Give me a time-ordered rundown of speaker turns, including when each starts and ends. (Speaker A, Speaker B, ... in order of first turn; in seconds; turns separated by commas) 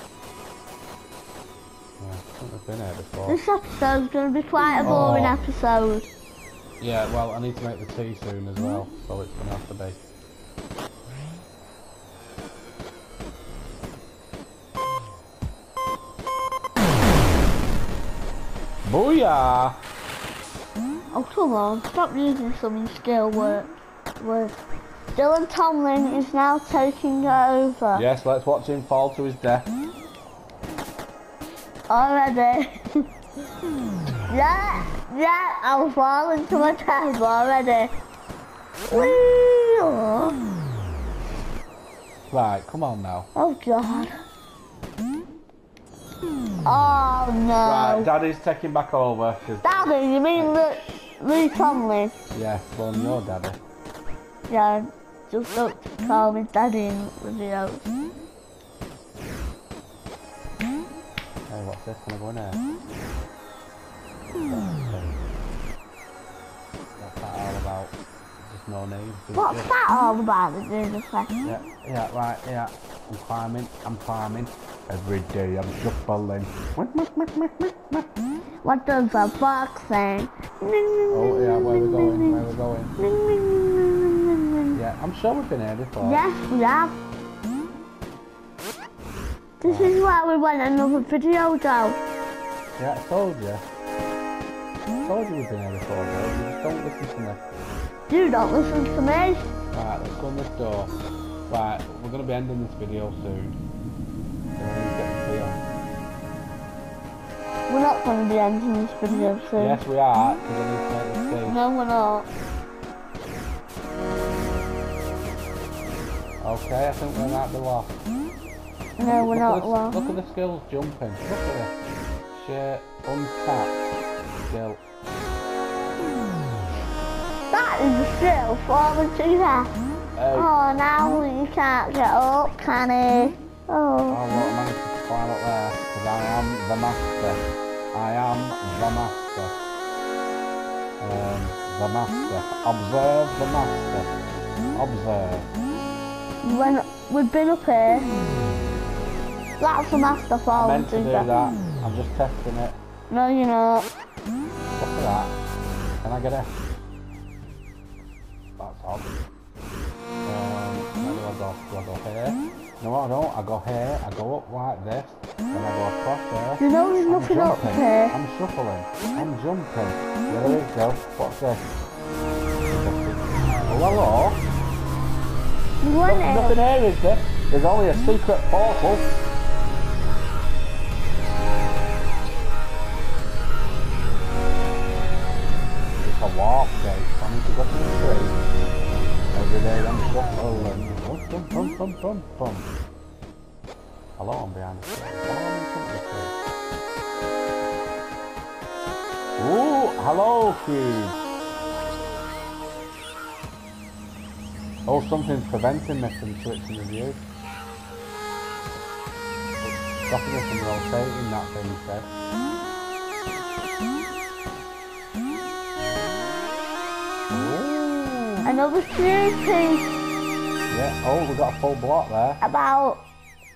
Speaker A: 2.0-3.4, Speaker B: 3.3-6.1, Speaker A: 4.8-5.4, Speaker A: 6.8-10.0, Speaker A: 18.9-19.8, Speaker B: 21.1-24.6, Speaker B: 25.1-28.1, Speaker A: 27.9-29.7, Speaker B: 31.9-33.1, Speaker B: 34.3-37.9, Speaker B: 38.9-40.4, Speaker A: 42.3-43.3, Speaker B: 43.4-44.1, Speaker B: 46.6-48.1, Speaker A: 47.6-51.1, Speaker B: 49.6-52.1, Speaker A: 52.3-53.6, Speaker B: 54.5-57.9, Speaker A: 61.5-62.6, Speaker A: 64.5-65.2, Speaker A: 67.0-69.7, Speaker B: 69.3-71.3, Speaker A: 71.4-78.1, Speaker B: 78.6-82.5, Speaker A: 81.1-83.0, Speaker B: 83.0-84.8, Speaker A: 84.7-86.2, Speaker B: 86.0-87.0, Speaker B: 89.6-92.0, Speaker A: 89.6-90.0, Speaker A: 92.8-93.6, Speaker A: 95.0-97.5, Speaker B: 98.1-99.5, Speaker A: 99.7-101.0, Speaker A: 101.5-103.6, Speaker A: 104.6-105.6, Speaker B: 107.7-109.8, Speaker A: 109.6-111.6, Speaker B: 111.5-112.3, Speaker A: 116.4-118.0, Speaker B: 119.0-120.0, Speaker A: 119.1-121.7, Speaker A: 122.3-123.9, Speaker A: 124.4-124.8, Speaker B: 127.5-129.7, Speaker A: 130.2-130.5, Speaker B: 130.3-134.2, Speaker A: 134.1-139.6, Speaker A: 141.0-144.1, Speaker A: 144.7-145.5, Speaker B: 146.4-148.1, Speaker B: 149.6-151.3, Speaker A: 150.5-152.8, Speaker B: 153.1-153.9, Speaker A: 154.8-155.4, Speaker A: 156.0-156.6, Speaker A: 158.6-159.2, Speaker A: 160.2-171.7, Speaker B: 166.6-168.2, Speaker A: 172.6-174.4, Speaker B: 175.8-176.6, Speaker A: 176.1-179.1, Speaker A: 186.0-188.4, Speaker A: 189.3-192.7, Speaker A: 194.2-196.3, Speaker A: 199.4-201.2, Speaker A: 204.9-207.2, Speaker A: 209.6-212.1, Speaker A: 217.3-218.5, Speaker B: 218.4-220.0, Speaker A: 220.7-222.4, Speaker B: 222.4-223.0